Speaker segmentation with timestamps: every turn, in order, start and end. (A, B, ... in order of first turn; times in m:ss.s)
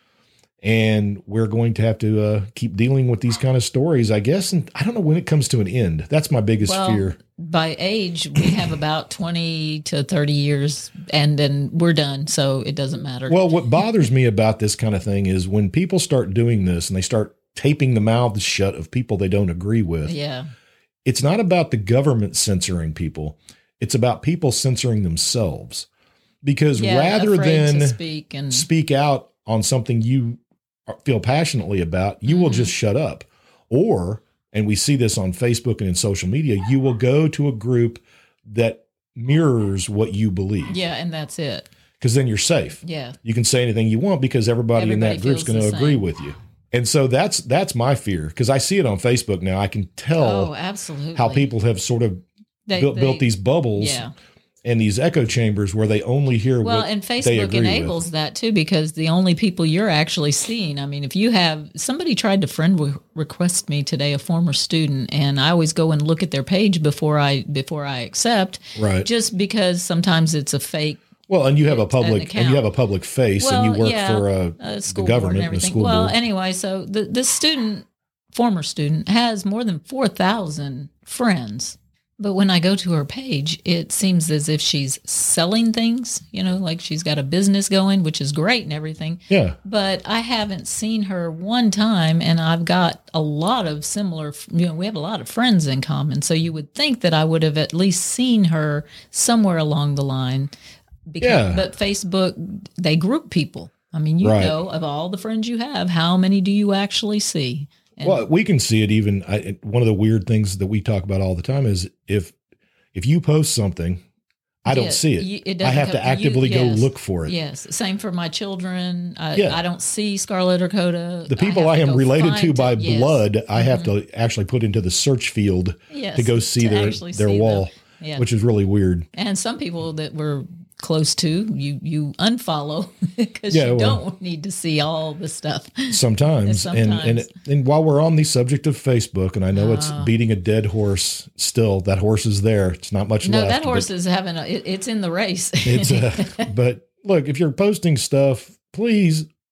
0:00.6-0:07.2 A
0:06.6-0:13.4 B
0:13.3-0:20.1 A
0:20.1-0:20.5 B
0:21.0-0:25.9 A
0:26.4-0:28.0 A
0:26.8-0:28.7 B
0:28.5-0:40.8 A
0:32.3-0:32.7 B
0:40.7-0:41.7 B
0:42.0-0:50.5 A
0:42.8-0:43.2 B
0:44.8-0:46.1 B
0:50.2-0:51.5 B
0:51.2-0:52.2 A
0:52.7-0:54.1 B
0:52.8-0:54.1 A
0:54.6-0:58.0 A
0:56.6-1:11.0 B
1:08.8-1:09.1 A
1:11.3-1:16.2 A
1:11.7-1:12.7 B
1:13.4-1:40.5 B
1:29.3-1:29.6 A
1:41.1-1:48.2 B
1:41.2-1:41.6 A
1:44.2-1:44.6 A
1:48.0-1:52.3 A
1:52.9-1:54.0 A
1:54.6-1:57.4 A
1:54.7-2:03.9 B
2:01.3-2:09.1 A
2:05.9-2:08.2 B
2:09.2-2:17.3 B
2:13.5-2:14.0 A
2:15.9-2:23.9 A
2:19.5-2:20.1 B
2:23.2-2:26.5 B
2:25.6-2:29.3 A